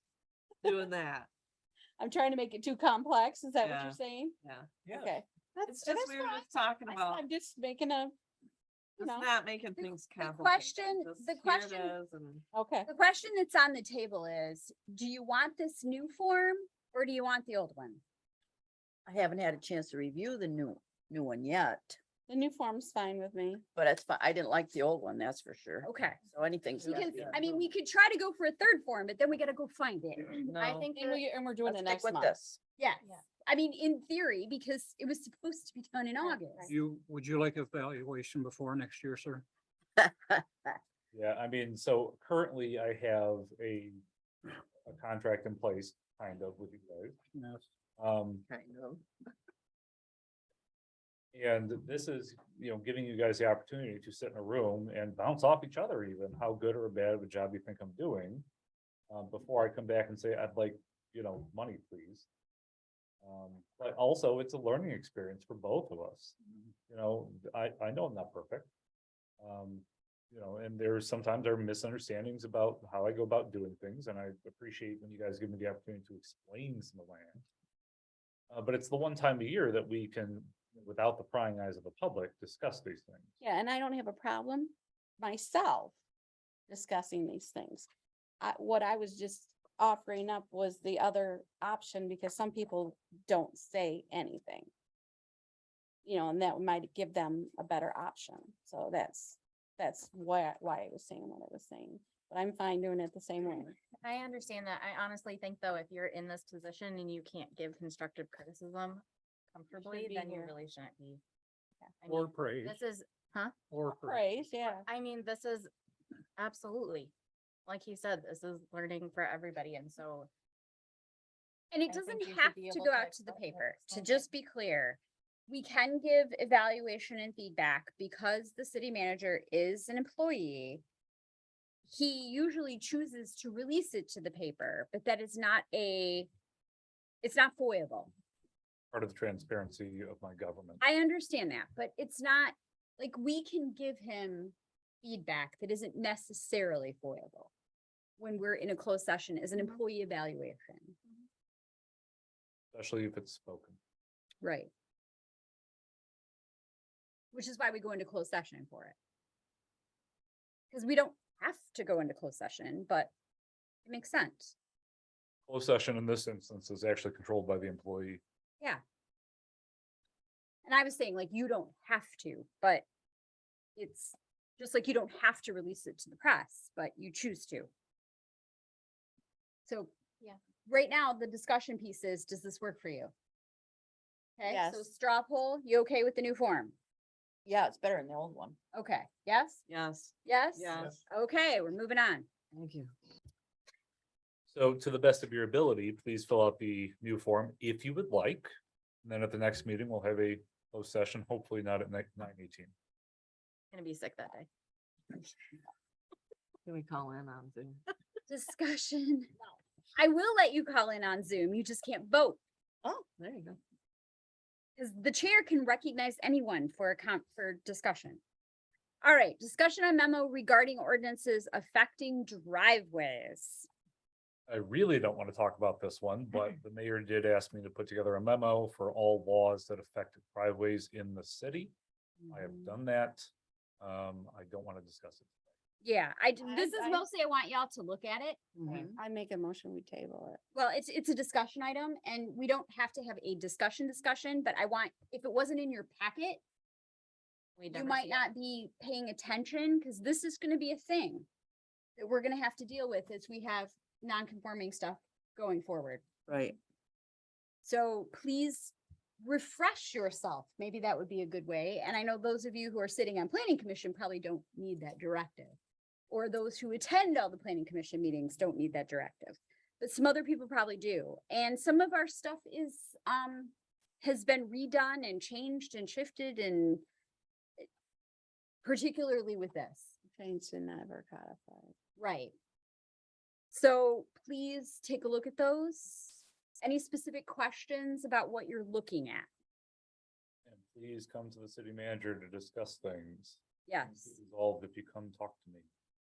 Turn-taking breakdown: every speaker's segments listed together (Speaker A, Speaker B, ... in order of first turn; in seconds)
Speaker A: 0.6-1.3, 3.6-4.9, 5.6-7.2, 9.0-12.4, 27.0-27.4, 189.7-190.9, 206.7-207.8, 212.8-213.6
Speaker B: 2.0-4.3, 4.9-8.1, 9.0-9.3, 12.5-12.9, 22.3-23.6, 30.9-32.3, 36.2-36.7, 83.4-85.9, 86.7-87.9, 88.4-94.7, 96.0-103.8, 109.8-110.5, 113.9-114.9, 184.4-184.8, 236.4-237.1, 238.7-240.4, 280.1-281.7
Speaker C: 9.8-12.0, 12.9-18.0, 25.8-26.2, 26.8-30.5, 32.8-36.7, 121.7-130.8, 131.9-136.3, 137.2-138.1, 140.8-147.5, 148.2-151.0, 154.4-154.7, 157.3-158.9, 160.7-163.1, 163.8-164.5, 170.7-172.8, 173.8-177.7, 179.7-179.9, 180.7-183.1, 184.4-186.8, 188.7-189.6, 190.2-192.3, 208.3-209.3, 210.0-212.4, 214.8-218.2, 219.0-223.7, 235.8-238.6, 240.5-246.4, 247.7-251.3, 252.0-256.1, 257.6-265.6, 266.1-276.8, 278.6-279.9, 282.0-282.3, 283.5-289.3, 293.7-294.1
Speaker D: 19.1-22.0, 23.8-27.3, 31.6-32.6, 48.5-49.0, 187.5-188.6, 256.3-256.6
Speaker E: 30.4-31.2, 104.0-111.2, 112.0-113.5, 114.9-115.7, 116.4-117.1, 117.7-120.3, 121.9-124.2, 203.7-204.5, 247.6-248.2
Speaker F: 36.7-39.5, 47.3-47.7, 112.1-112.8, 113.7-114.2
Speaker G: 41.1-44.0, 44.9-47.3, 48.0-48.5, 51.3-58.5, 59.1-62.3, 63.2-66.4, 66.9-68.7, 69.4-77.5, 78.5-83.3, 138.9-140.8, 152.7-153.8, 165.5-168.2, 194.5-198.5, 199.0-202.7, 224.5-231.7, 232.3-235.3, 290.4-295.7